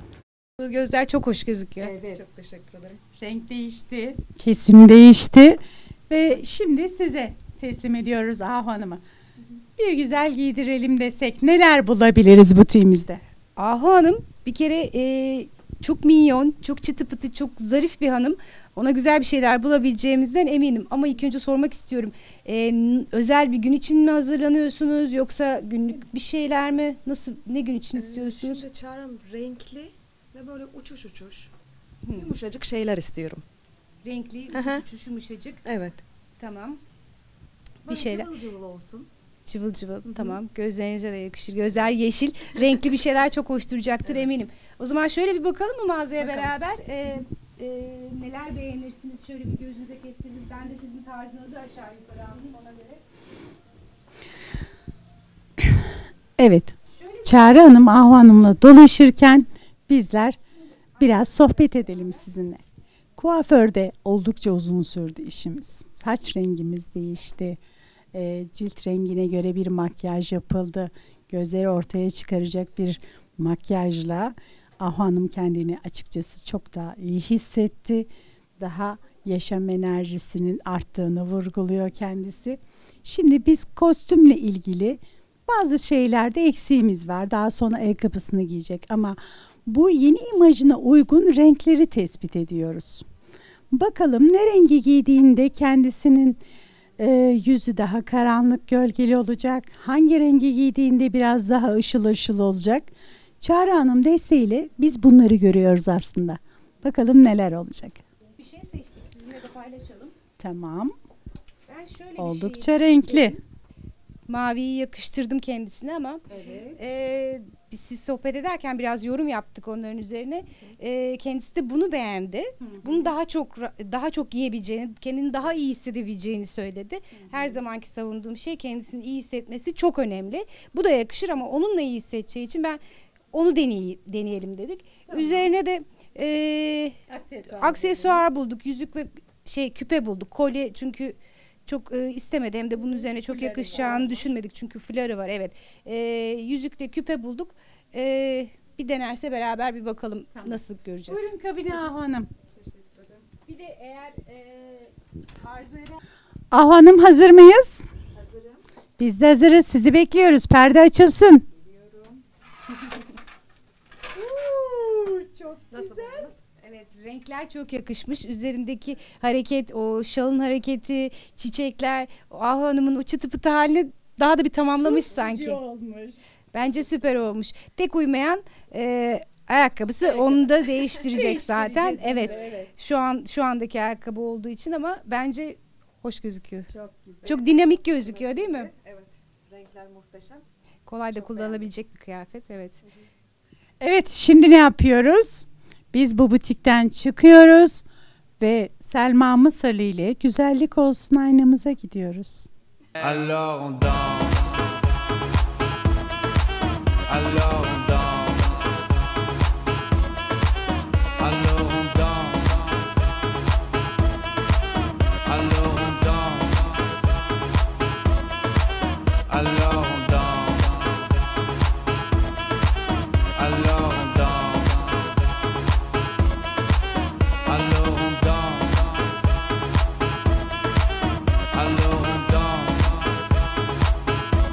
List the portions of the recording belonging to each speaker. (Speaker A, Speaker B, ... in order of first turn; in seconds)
Speaker A: 0.6-1.9, 13.6-28.6, 32.0-32.3, 34.0-35.6, 36.4-36.8, 37.9-38.3, 39.5-53.0, 56.9-57.5, 108.4-110.2, 111.7-113.3, 114.3-132.8, 133.3-151.3, 153.4-156.0, 165.7-175.6, 176.5-186.7, 187.2-188.7, 190.9-192.8
Speaker B: 1.8-3.0, 27.9-31.5, 32.1-33.4, 34.5-34.8, 35.6-36.0, 37.9-39.1, 40.0-40.4, 46.2-46.5, 152.7-153.2, 165.7-166.3, 187.1-190.4, 191.3-191.7
Speaker C: 1.9-2.2, 3.1-9.0, 9.8-13.2, 56.4-60.4, 61.0-62.6, 63.2-67.6, 68.1-93.0, 93.7-96.4, 97.0-102.9, 103.4-108.0, 110.4-111.0, 112.2-113.4, 137.2-138.2, 151.1-152.3, 156.5-157.9, 159.0-161.5, 164.2-165.6, 174.8-176.2, 181.1-182.7, 193.8-197.8, 198.4-202.5
Speaker D: 203.0-204.7, 207.1-208.7, 211.2-212.9, 215.3-217.0, 219.3-221.0, 223.3-225.1, 227.5-229.2, 231.5-233.3